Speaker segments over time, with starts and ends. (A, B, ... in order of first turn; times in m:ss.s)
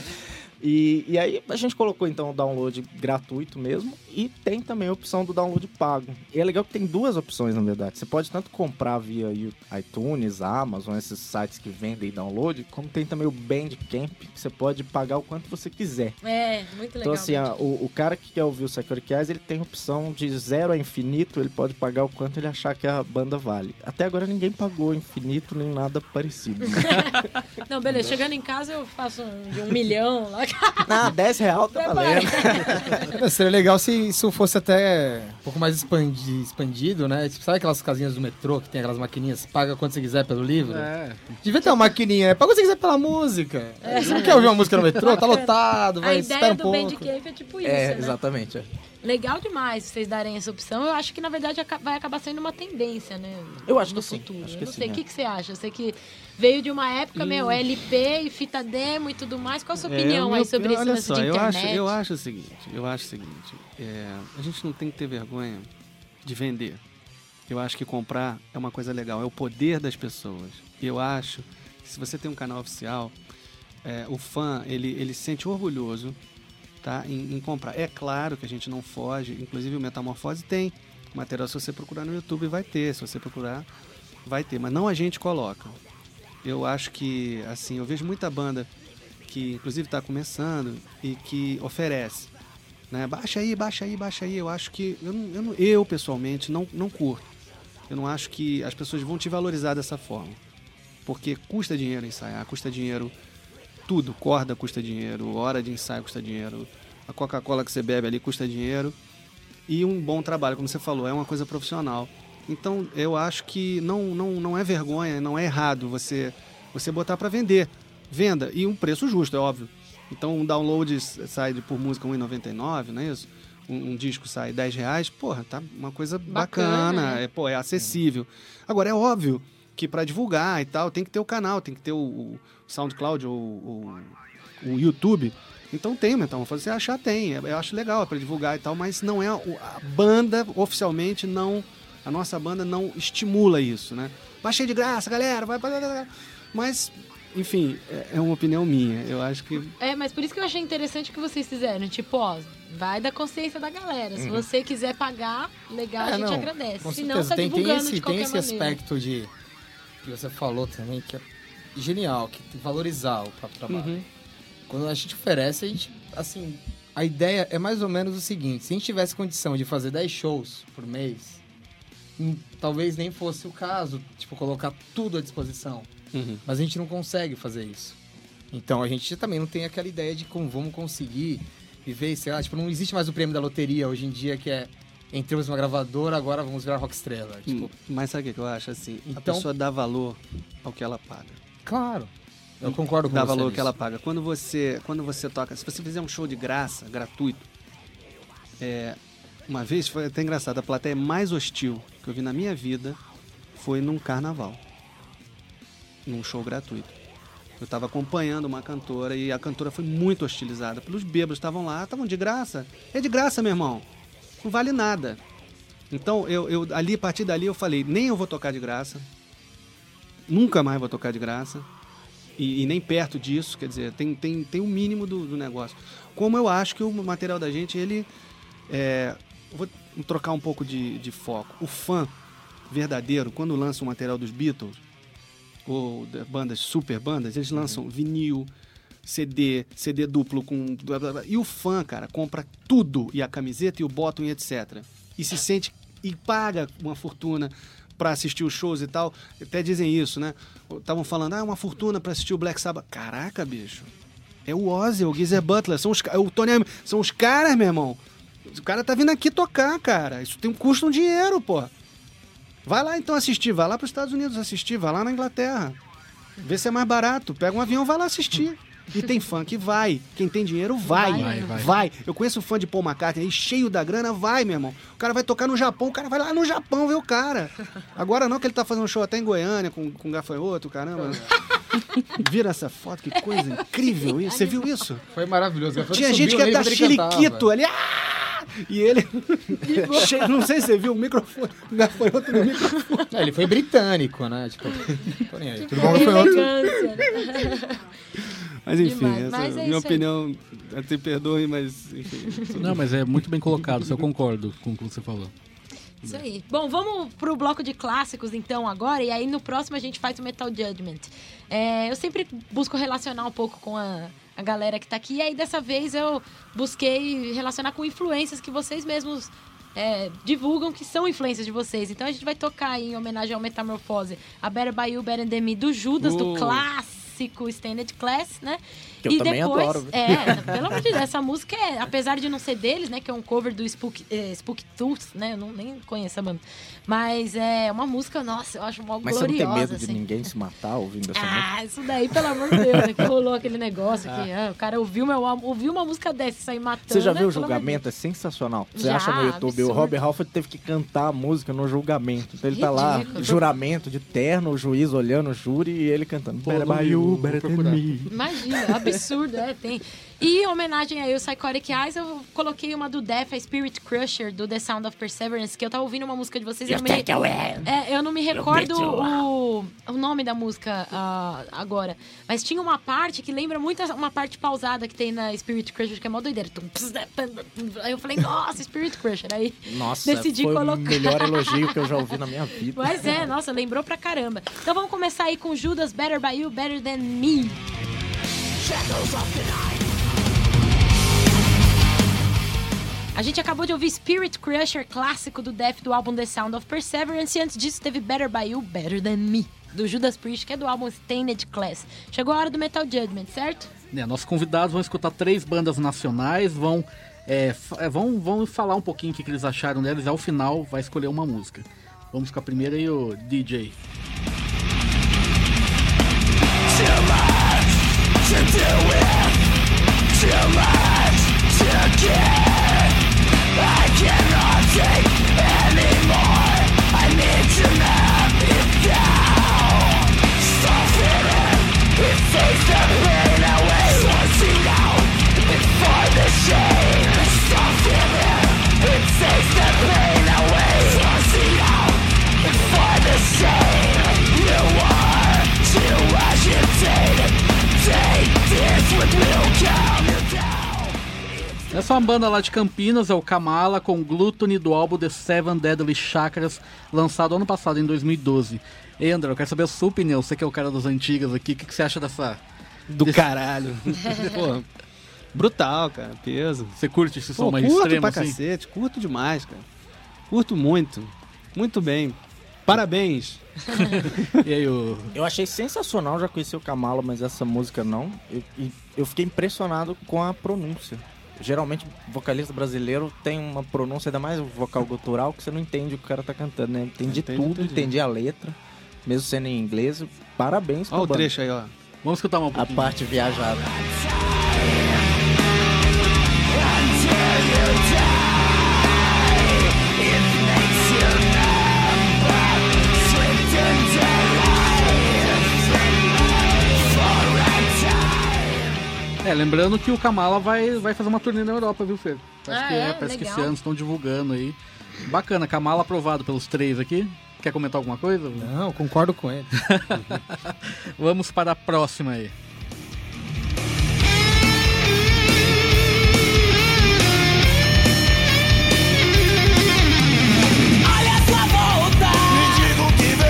0:00.6-0:16.2 A
0:16.2-0:17.7 B
0:17.0-0:27.2 A
0:26.7-0:31.0 B
0:30.8-0:33.0 A
0:31.7-0:33.0 B
0:33.1-0:40.9 C
0:40.6-0:41.4 D
0:41.4-0:47.1 C
0:43.8-0:48.2 B
0:44.0-0:44.9 D
0:47.6-0:48.7 A
0:49.0-1:02.0 B
0:53.6-0:55.0 A
0:57.2-0:57.6 E
0:59.8-1:05.7 E
1:06.2-1:06.8 E
1:07.5-1:13.1 E
1:13.8-1:16.2 E
1:16.8-1:23.7 E
1:24.2-1:25.8 E
1:26.4-1:28.7 E
1:29.3-1:32.3 E
1:32.9-1:37.2 E
1:37.9-1:40.4 E
1:41.0-1:43.1 E
1:43.9-1:49.0 E
1:49.7-2:29.7 E
2:06.3-2:07.2 B
2:29.8-2:38.8 B
2:34.2-2:34.4 A
2:36.0-2:39.3 C
2:40.0-2:44.0 C
2:43.7-2:44.0 E
2:44.7-2:51.4 C
2:52.2-2:55.9 C
2:56.1-2:56.4 E
2:56.4-2:58.0 C
2:58.5-3:07.7 C
3:07.5-3:11.4 E
3:09.2-3:09.5 C
3:11.6-3:13.7 C
3:12.6-3:17.5 E
3:18.6-3:23.0 E
3:23.5-3:24.6 E
3:26.0-3:26.9 E
3:27.6-3:33.8 E
3:34.4-3:35.2 E
3:35.9-3:39.0 E
3:40.3-3:41.7 E
3:42.4-3:48.1 E
3:48.7-3:52.1 E
3:52.7-3:54.8 E
3:55.6-3:58.5 E
3:59.0-4:13.9 E
4:14.4-4:21.7 E
4:22.6-4:25.8 E
4:26.4-4:41.3 E
4:30.8-4:31.7 B
4:31.1-4:31.7 D
4:42.1-4:45.0 E
4:45.1-4:47.5 C
4:45.8-4:53.2 E
4:49.6-4:50.1 B
4:53.1-4:56.5 C
4:55.6-4:57.8 B
4:55.7-4:57.2 E
4:58.6-5:03.2 E
4:58.8-5:00.0 B
5:02.6-5:05.3 D
5:06.0-5:40.0 B
5:26.0-5:26.6 E
5:29.0-5:30.5 A
5:39.0-5:41.5 A
5:41.1-5:47.8 B
5:42.5-5:42.8 A
5:46.9-5:58.7 A
5:48.7-5:49.9 B
5:52.5-5:53.4 B
5:56.4-5:57.8 D
5:58.1-6:07.1 B
6:06.7-6:07.7 F
6:07.6-6:21.9 B
6:08.3-6:09.2 F
6:19.6-6:23.3 A
6:22.7-6:27.6 B
6:28.6-6:29.9 F
6:33.1-6:43.7 B
6:43.9-6:53.7 D
6:56.6-7:03.0 F
7:03.5-7:31.9 F
7:31.7-7:42.4 D
7:42.9-7:44.6 E
7:43.0-7:43.3 D
7:45.3-7:46.8 E
7:46.8-7:48.4 D
7:47.4-7:49.6 E
7:50.3-7:54.4 E
7:53.8-7:55.1 D
7:55.1-8:11.3 A
8:07.0-8:07.9 E
8:10.9-8:11.7 E
8:12.0-8:13.0 D
8:12.5-8:13.7 A
8:13.7-8:15.1 F
8:16.5-8:28.8 F
8:29.2-8:38.5 D
8:32.5-8:33.5 B
8:38.4-8:39.5 C
8:39.5-8:42.3 D
8:50.8-8:52.9 F